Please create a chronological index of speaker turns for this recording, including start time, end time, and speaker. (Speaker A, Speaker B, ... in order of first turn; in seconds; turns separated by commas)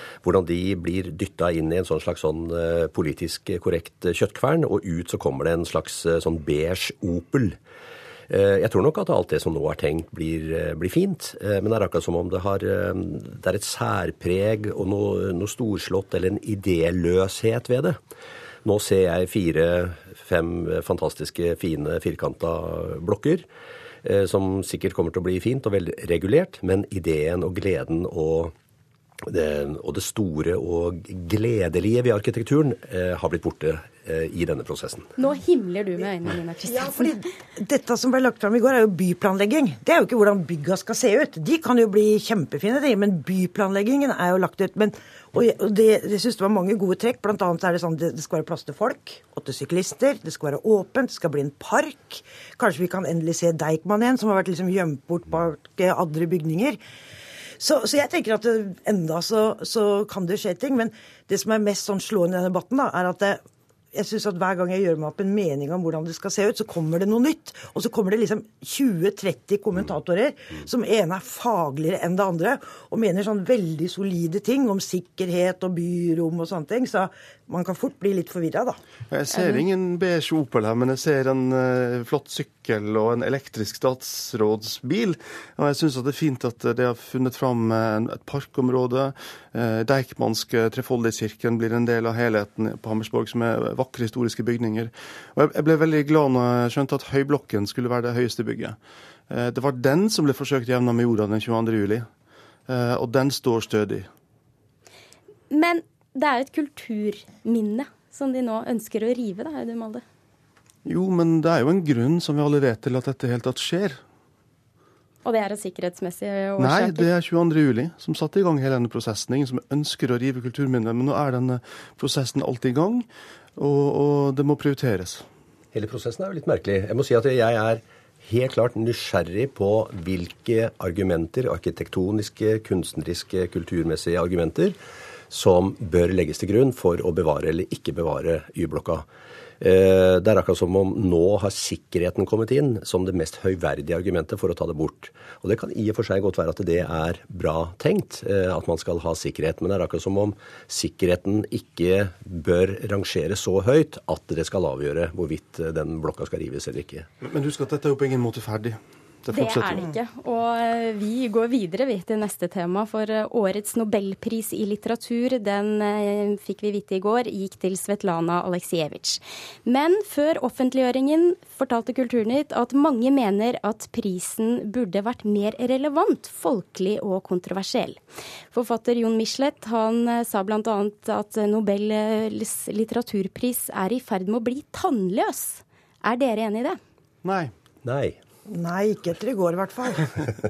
Speaker A: 0.2-7.6, Speaker A: 8.3-18.0, Speaker A: 18.6-23.4, Speaker A: 24.0-28.5, Speaker A: 29.2-35.1, Speaker B: 35.2-37.1, Speaker C: 36.6-56.8, Speaker C: 57.6-63.4, Speaker C: 63.9-78.8, Speaker D: 79.1-98.8, Speaker B: 79.3-79.6, Speaker D: 99.3-102.1, Speaker D: 102.7-104.1, Speaker B: 105.5-110.0, Speaker D: 110.9-114.0, Speaker B: 115.2-117.1, Speaker D: 116.6-125.2, Speaker A: 125.7-134.8, Speaker A: 135.3-139.1, Speaker A: 139.6-157.1, Speaker D: 157.2-159.9, Speaker B: 159.3-178.0, Speaker B: 178.5-186.8, Speaker D: 187.2-187.5, Speaker A: 187.8-188.2, Speaker C: 188.5-190.2